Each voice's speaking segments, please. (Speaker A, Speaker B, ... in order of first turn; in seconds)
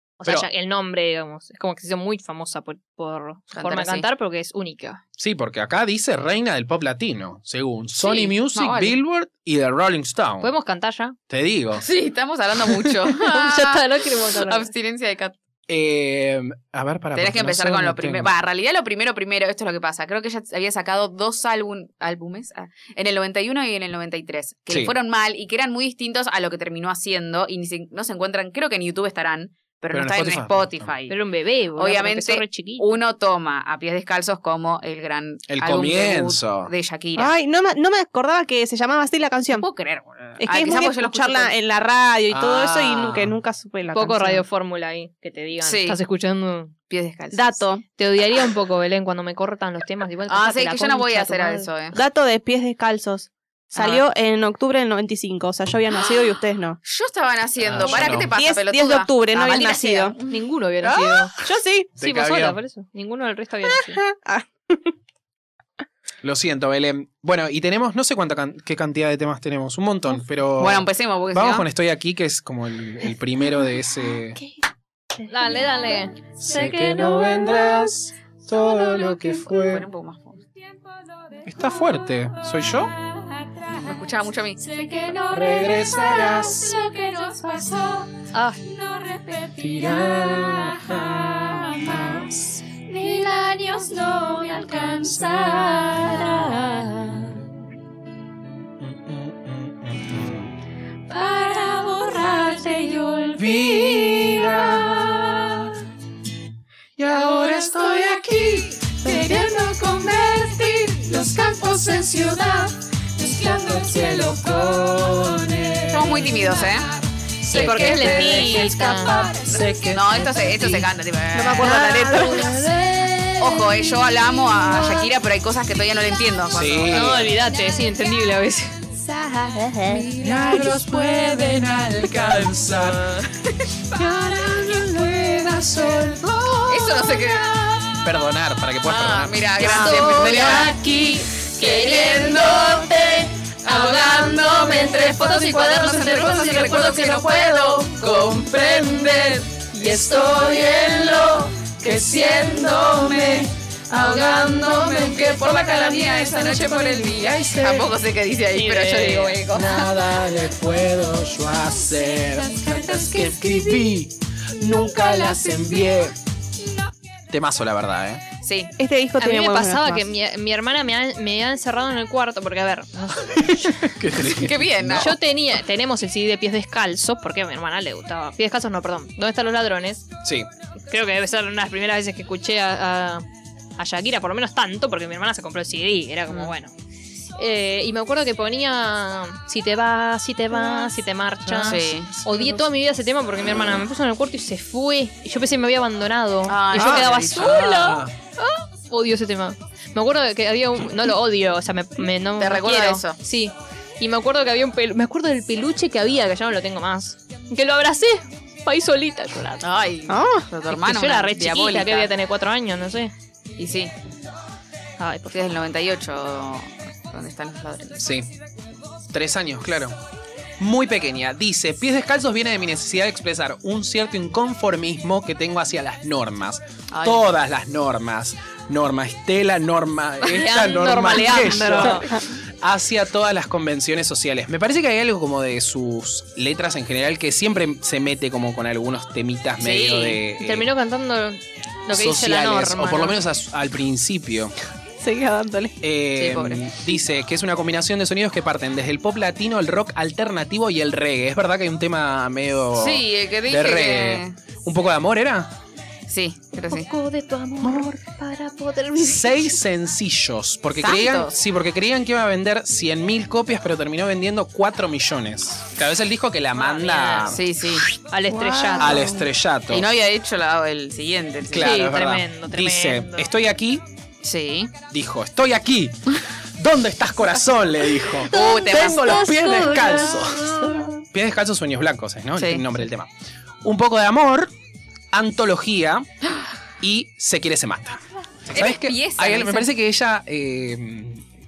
Speaker A: 0.2-5.0, 10.4-11.2, 13.1-14.7, 31.1-32.9, 43.9-46.7, 48.0-51.7, 60.3-61.4, 62.0-64.0, 75.2-77.3, 88.3-88.6, 117.5-119.3, 126.9-128.8, 139.6-140.6, 158.5-159.4, 169.2-173.9, 174.9-180.1, 180.9-183.2, 183.8-186.7, 187.4-209.7, 210.7-213.1, 215.0-215.6, 230.2-232.2, 240.4-243.2, 256.7-259.5, 266.6-267.4, 268.1-269.1, 271.6-273.3
Speaker B: 3.5-4.0, 8.0-9.0, 11.8-15.3, 17.1-31.1, 31.8-37.3, 39.6-41.5, 45.6-46.0, 46.9-47.6, 50.3-52.0, 53.8-54.0, 56.8-60.4, 70.6-71.7, 79.6-80.4, 83.8-84.6, 115.9-116.9, 117.5-118.5, 119.9-122.3, 123.4-127.3, 136.7-137.5, 138.8-140.7, 145.7-147.5, 155.6-159.9, 168.4-168.7, 174.1-175.1, 191.6-192.1, 196.4-197.6, 202.4-203.2, 209.6-212.1, 213.6-213.9, 215.3-218.0, 226.9-227.2, 239.6-240.2, 246.1-246.7, 252.8-254.3, 256.1-256.9, 260.8-261.3, 267.2-267.8, 269.7-271.7, 274.2-274.7, 278.2-279.4, 282.4-282.6, 288.5-289.7
Speaker C: 5.2-10.5, 11.3-11.8, 15.7-18.3, 29.9-30.9, 35.5-36.7, 42.3-43.4, 57.6-58.3, 60.8-61.3, 62.0-62.6, 66.2-74.4, 76.4-79.8, 81.4-82.9, 85.3-86.8, 89.6-92.6, 95.1-95.6, 98.8-100.5, 103.3-105.8, 107.0-109.3, 113.6-116.4, 117.5-118.0, 119.2-120.8, 126.5-127.3, 130.1-133.2, 133.9-137.3, 138.0-139.6, 157.2-157.9, 159.5-166.1, 167.3-168.2, 173.2-175.1, 191.4-192.6, 197.3-198.1, 218.0-218.3, 219.1-220.0, 220.6-240.7, 241.9-244.5, 245.8-255.5, 257.6-257.9, 259.0-267.9, 268.8-269.9, 271.5-273.8, 274.9-283.1, 283.6-284.5, 285.1-286.1, 286.8-291.2
Speaker D: 37.1-39.7, 40.4-44.4, 47.3-47.8, 51.9-56.8, 58.0-60.2, 61.4-61.9, 63.7-64.9, 121.3-122.6, 129.1-130.1, 168.8-170.1, 210.1-210.5, 245.0-245.8, 268.3-269.3
Speaker E: 77.3-77.8, 78.8-79.4, 84.6-97.3, 101.1-105.6, 107.1-116.8, 117.4-120.5, 122.0-125.1, 129.8-132.8, 134.5-134.9, 139.6-157.6, 162.1-163.9, 164.6-166.1, 279.3-280.2